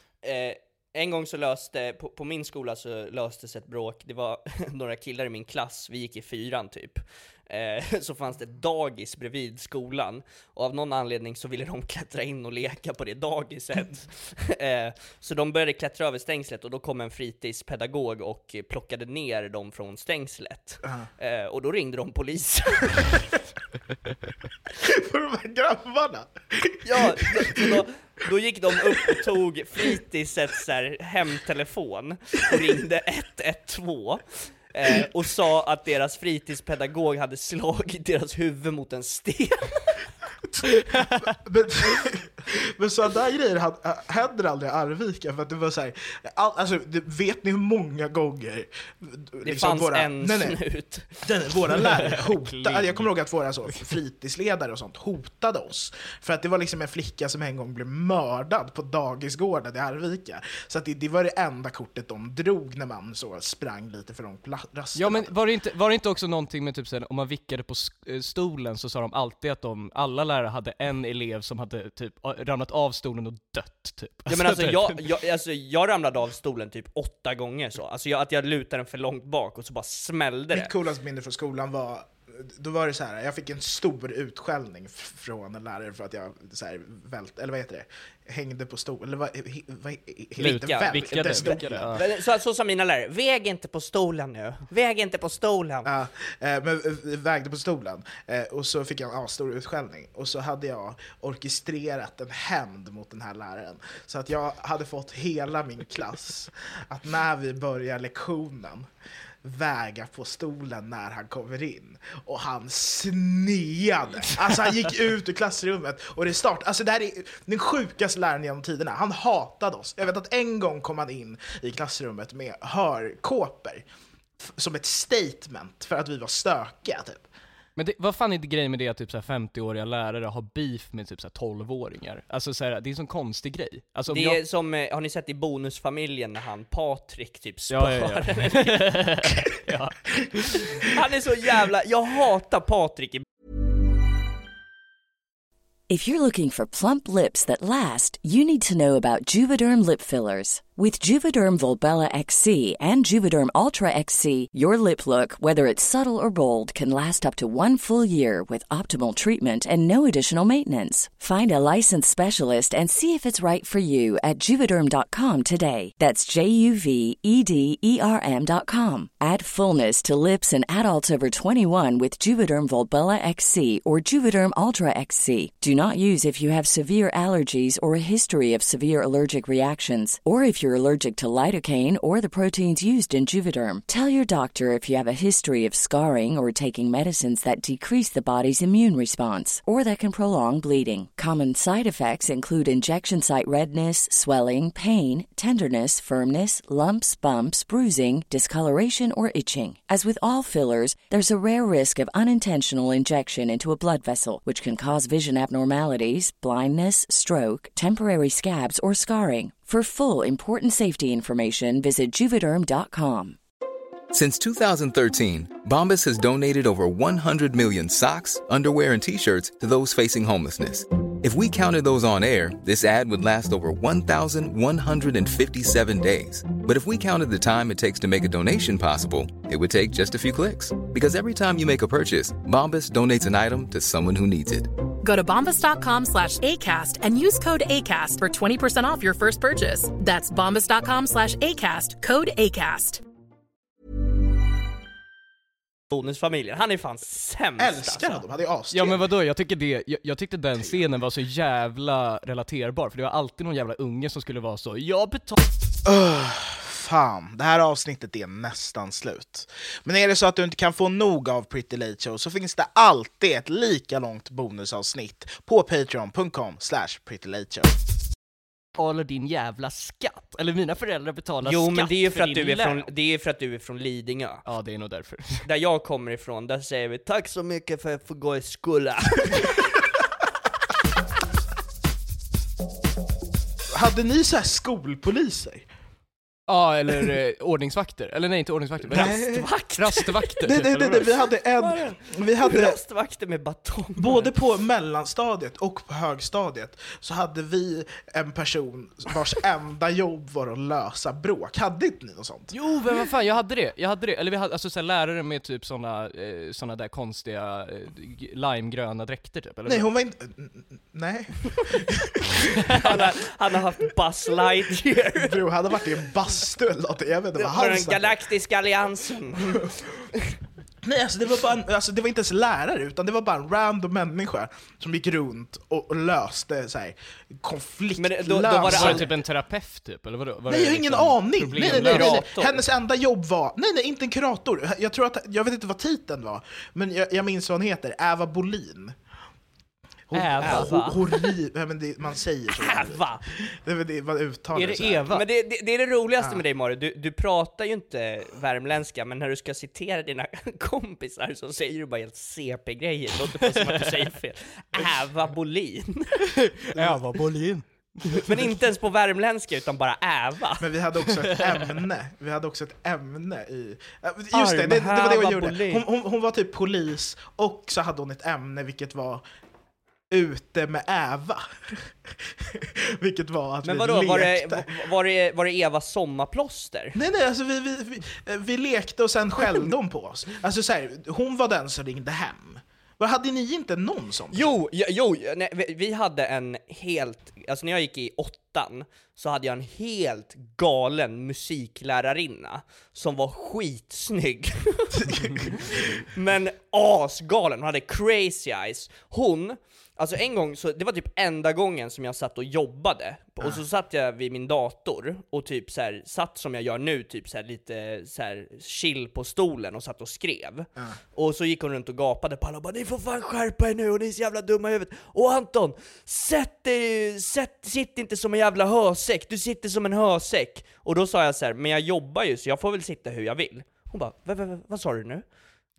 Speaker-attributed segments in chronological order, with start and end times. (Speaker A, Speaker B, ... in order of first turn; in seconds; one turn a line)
Speaker A: 0.2-23.2
Speaker B: 24.8-27.8
Speaker A: 26.8-40.0
Speaker B: 28.9-29.2
Speaker B: 40.6-50.6
Speaker A: 49.4-53.1
Speaker B: 51.2-65.3
Speaker C: 65.0-75.0
Speaker A: 74.3-80.7
Speaker B: 80.5-92.0
Speaker C: 90.4-92.0
Speaker A: 90.4-95.9
Speaker B: 95.8-108.9
Speaker B: 109.4-123.8
Speaker B: 124.4-127.2
Speaker C: 127.8-134.4
Speaker A: 134.1-139.3
Speaker C: 137.7-140.6
Speaker A: 140.4-143.2
Speaker D: 145.9-213.4
Speaker E: 214.1-234.7
Speaker F: 235.0-243.0
Speaker A: 245.9-248.2
Speaker B: 247.6-249.0
Speaker C: 248.7-255.4
Speaker B: 250.6-250.8
Speaker B: 255.8-267.7
Speaker C: 268.8-272.9
Speaker A: 271.4-274.4
Speaker C: 274.4-275.5
Speaker A: 275.4-279.7
Speaker B: 283.7-285.7
Speaker C: 286.5-291.1
Speaker A: 288.9-294.3
Speaker B: 288.9-289.5
Speaker B: 290.4-292.8
Speaker B: 294.0-302.5
Speaker C: 302.5-309.9
Speaker B: 309.6-313.0
Speaker A: 312.7-315.4
Speaker B: 315.1-318.2
Speaker A: 317.4-319.6
Speaker B: 320.8-329.1
Speaker A: 328.0-329.1
Speaker C: 328.7-332.2
Speaker B: 330.5-339.0
Speaker A: 331.6-332.6
Speaker B: 340.1-345.1
Speaker C: 340.1-340.7
Speaker A: 340.4-341.3
Speaker A: 342.5-343.2
Speaker C: 344.5-345.2
Speaker A: 345.1-356.2
Speaker C: 353.5-353.8
Speaker C: 356.4-358.5
Speaker A: 358.2-360.7
Speaker B: 360.6-369.2
Speaker A: 364.3-365.8
Speaker B: 370.1-374.7
Speaker A: 373.6-377.0
Speaker B: 376.9-384.5
Speaker A: 384.3-425.2
Speaker B: 395.0-395.7